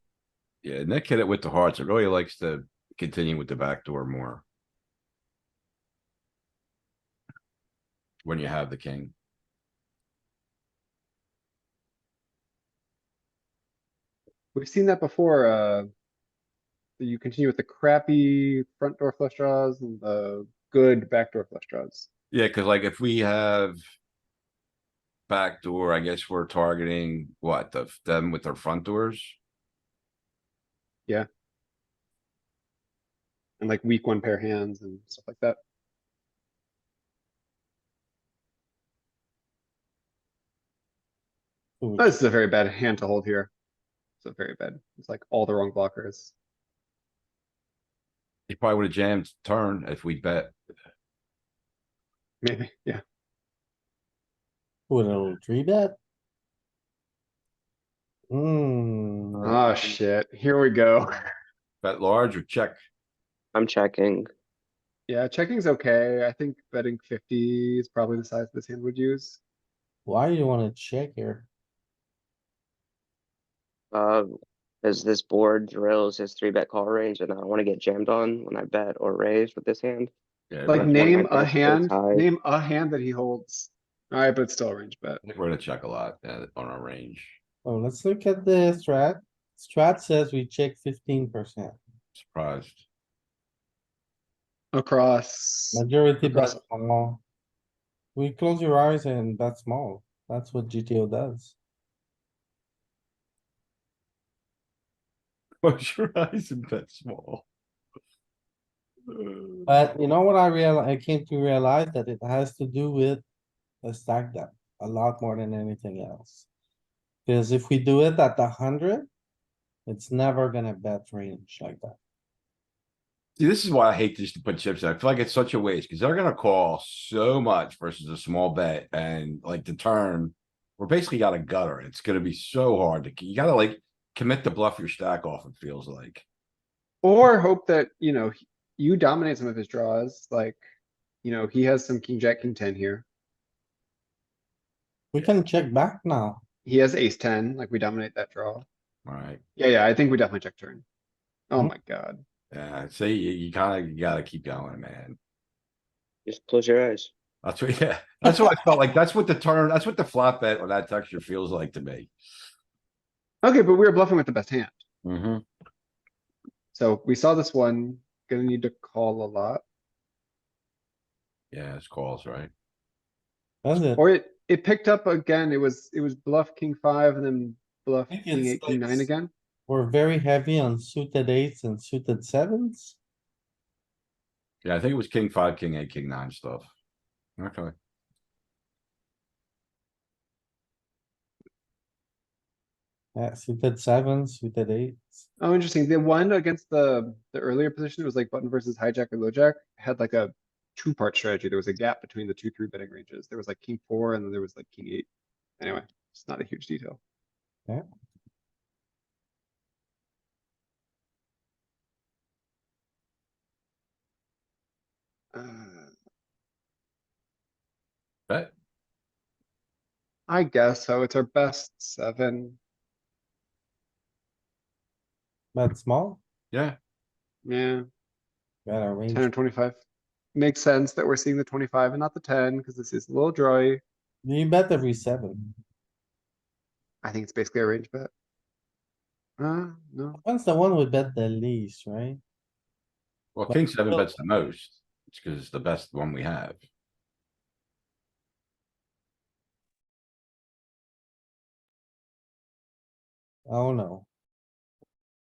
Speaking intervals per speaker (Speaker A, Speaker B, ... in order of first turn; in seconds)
Speaker A: 0.6-4.5, 8.2-9.1, 22.3-23.8, 25.3-29.4, 48.5-50.6, 61.8-62.8, 80.5-81.0, 85.2-87.4, 92.2-92.8, 105.6-107.5, 109.1-109.7, 123.4-136.2, 149.1-149.4, 152.5-155.2, 157.4-162.1, 165.0-165.4, 171.5-172.5, 184.6-186.7, 187.4-187.7, 218.3-218.5, 226.5-226.8, 243.3-246.6
Speaker B: 14.5-15.9, 17.0-22.1, 33.6-35.6, 42.0-43.5, 44.2-46.3, 52.4-53.0, 59.4-61.3, 65.1-69.4, 80.7-85.2, 94.7-96.6, 137.0-140.6, 141.2-143.1, 146.7-148.7, 149.6-150.8, 151.5-152.2, 163.4-164.8, 166.7-169.6, 174.0-179.3, 195.4-205.1, 205.6-207.0, 215.3-215.9, 220.3-222.6, 227.4-227.9, 229.1-229.8, 230.3-233.8, 237.0-238.1, 239.4-240.2
Speaker C: 41.8-42.1, 54.9-56.0, 58.3-59.6, 70.1-71.5, 87.7-91.8, 95.7-97.2, 98.2-101.5, 109.7-113.2, 113.8-116.5, 117.3-119.1, 119.9-122.0, 145.1-146.4, 173.6-174.0, 178.1-179.1, 179.7-183.0, 193.2-195.3, 225.6-226.2, 228.7-229.3, 234.2-235.6, 240.2-242.2, 243.5-244.1, 253.5-254.1
Speaker D: 63.5-64.3, 73.9-74.3, 74.8-80.1, 80.8-82.2, 156.3-157.1